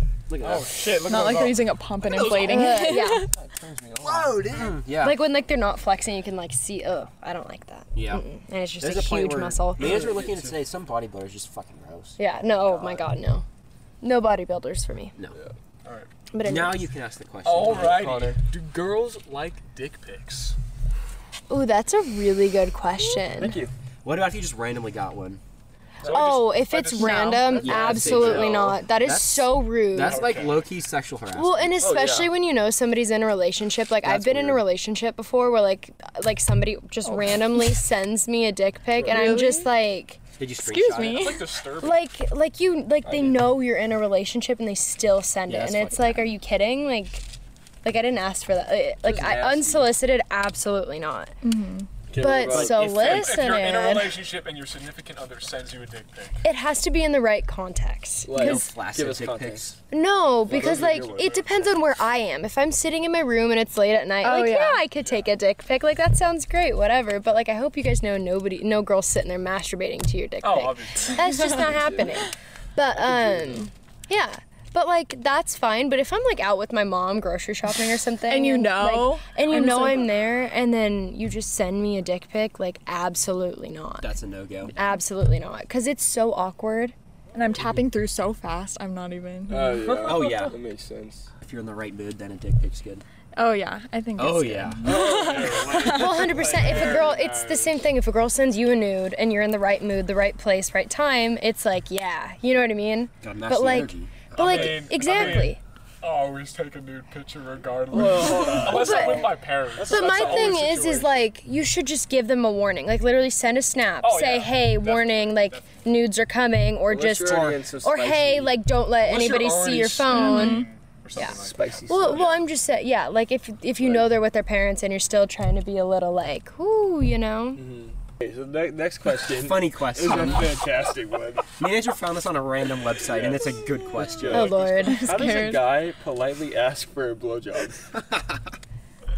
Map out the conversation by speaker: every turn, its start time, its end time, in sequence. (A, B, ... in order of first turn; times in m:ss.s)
0:00.3-0:00.8 A
0:00.4-0:02.1 B
0:01.0-0:03.3 C
0:02.1-0:03.3 D
0:02.4-0:04.7 E
0:04.0-0:05.2 A
0:05.0-0:10.0 D
0:07.9-0:08.3 A
0:08.8-0:12.2 A
0:09.8-0:10.6 E
0:12.2-0:13.4 D
0:14.0-0:15.1 D
0:15.8-0:16.1 B
0:16.3-0:16.9 D
0:16.4-0:18.2 A
0:17.4-0:20.6 B
0:17.6-0:18.4 E
0:21.5-0:23.6 D
0:23.3-0:23.7 E
0:24.0-0:25.4 A
0:26.0-0:30.3 D
0:26.0-0:28.7 B
0:26.9-0:27.6 C
0:27.5-0:28.7 E
0:27.6-0:31.8 A
0:30.0-0:30.6 B
0:31.3-0:40.2 D
0:31.8-0:32.3 E
0:34.0-0:34.6 A
0:37.0-0:37.4 C
0:39.0-0:39.4 E
0:39.0-0:39.7 C
0:40.4-0:41.4 A
0:40.6-0:41.5 C
0:41.0-0:42.1 B
0:41.7-0:47.2 D
0:43.0-0:43.4 E
0:45.5-0:46.3 A
0:47.8-0:51.3 D
0:49.0-0:49.9 E
0:51.4-0:51.9 C
0:52.1-0:52.9 E
0:52.2-0:54.2 D
0:52.4-0:53.6 A
0:52.9-0:56.4 B
0:56.4-0:58.7 D
0:58.2-0:59.8 E
0:58.3-0:59.8 A
0:59.9-1:24.1 D
1:00.4-1:01.5 E
1:00.5-1:00.8 A
1:00.6-1:01.4 B
1:04.2-1:04.8 C
1:05.0-1:05.3 B
1:10.4-1:11.4 B
1:11.6-1:12.1 E
1:12.9-1:13.7 E
1:18.3-1:20.1 C
1:24.0-1:24.7 A
1:24.7-1:26.9 D
1:27.3-1:30.3 C
1:29.5-1:31.3 E
1:29.9-1:30.6 A
1:31.4-1:33.0 A
1:33.3-1:36.3 C
1:34.2-1:34.9 A
1:34.8-1:37.1 E
1:34.8-1:37.8 B
1:35.7-1:45.6 D
1:43.2-1:45.2 A
1:44.3-1:51.3 B
1:47.9-1:50.8 E
1:48.4-2:07.6 D
1:54.0-1:55.8 B
1:56.9-1:58.6 E
1:57.2-1:57.6 A
1:59.0-2:02.4 B
2:00.1-2:00.7 C
2:01.2-2:02.3 E
2:03.8-2:04.1 E
2:07.6-2:11.5 E
2:09.3-2:10.6 A
2:11.6-2:14.6 A
2:13.1-2:17.9 E
2:14.3-2:15.6 D
2:14.4-2:15.0 B
2:14.8-2:15.6 C
2:17.9-2:18.4 A